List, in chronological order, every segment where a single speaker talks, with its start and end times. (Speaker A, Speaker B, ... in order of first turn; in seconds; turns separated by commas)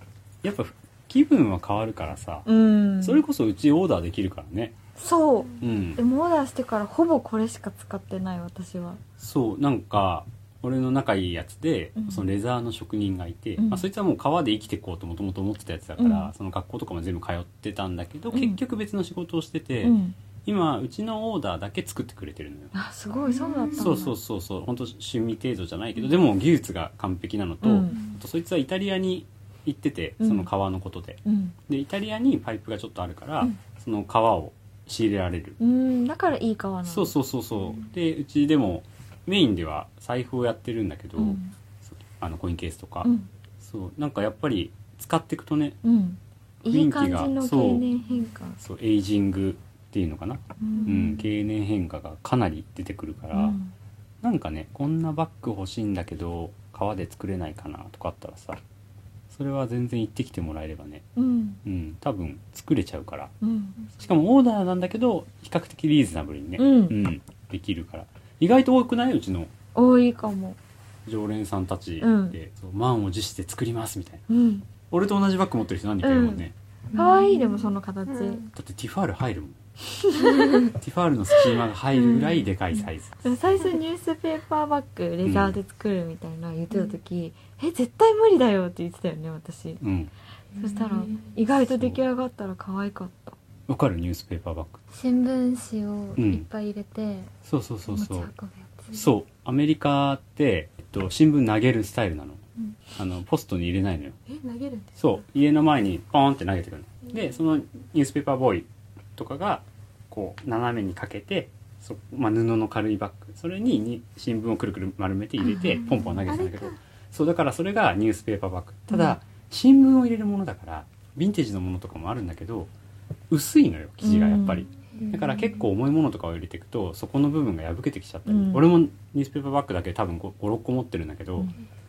Speaker A: 0.4-2.5, Speaker B: 2.5-3.2, Speaker A: 3.0-4.8, Speaker B: 5.0-9.0, Speaker A: 5.6-6.0, Speaker A: 9.2-22.8, Speaker B: 11.9-12.3, Speaker B: 13.6-13.8, Speaker B: 16.0-16.3, Speaker B: 18.3-18.6, Speaker B: 19.8-20.1, Speaker B: 22.7-24.1, Speaker C: 23.3-23.9, Speaker A: 23.8-35.6, Speaker B: 27.6-28.0, Speaker C: 27.9-28.1, Speaker B: 30.2-30.5, Speaker B: 31.2-31.5, Speaker B: 35.6-37.1, Speaker A: 36.9-43.1, Speaker B: 41.2-41.5, Speaker A: 43.6-45.8, Speaker B: 45.8-48.6, Speaker A: 46.7-47.9, Speaker A: 48.6-53.6, Speaker B: 50.6-51.2, Speaker B: 53.3-53.7, Speaker A: 54.2-58.6, Speaker A: 59.3-61.1, Speaker B: 61.1-61.6, Speaker A: 61.6-63.3, Speaker B: 63.4-63.8, Speaker A: 64.0-69.5, Speaker B: 66.6-67.0, Speaker B: 69.7-70.6, Speaker A: 71.0-74.2, Speaker B: 72.0-72.3, Speaker B: 74.3-74.6, Speaker A: 74.9-76.5, Speaker B: 76.0-76.4, Speaker C: 76.9-78.5, Speaker B: 76.9-78.4, Speaker A: 78.5-79.6, Speaker B: 80.0-80.7, Speaker A: 80.7-83.3, Speaker B: 82.0-82.5, Speaker B: 83.2-89.8, Speaker A: 85.2-85.6, Speaker A: 89.8-90.1, Speaker C: 90.6-91.3, Speaker B: 90.6-93.4, Speaker A: 91.5-92.0, Speaker A: 93.7-94.8, Speaker D: 94.9-97.3, Speaker A: 96.2-96.5, Speaker A: 97.5-98.3, Speaker D: 97.9-99.0, Speaker A: 98.9-102.4, Speaker A: 103.0-104.2, Speaker C: 104.3-104.9, Speaker A: 105.0-122.7, Speaker B: 115.5-115.8, Speaker B: 118.9-119.2, Speaker A: 123.3-131.5, Speaker B: 124.0-124.7, Speaker B: 128.2-128.7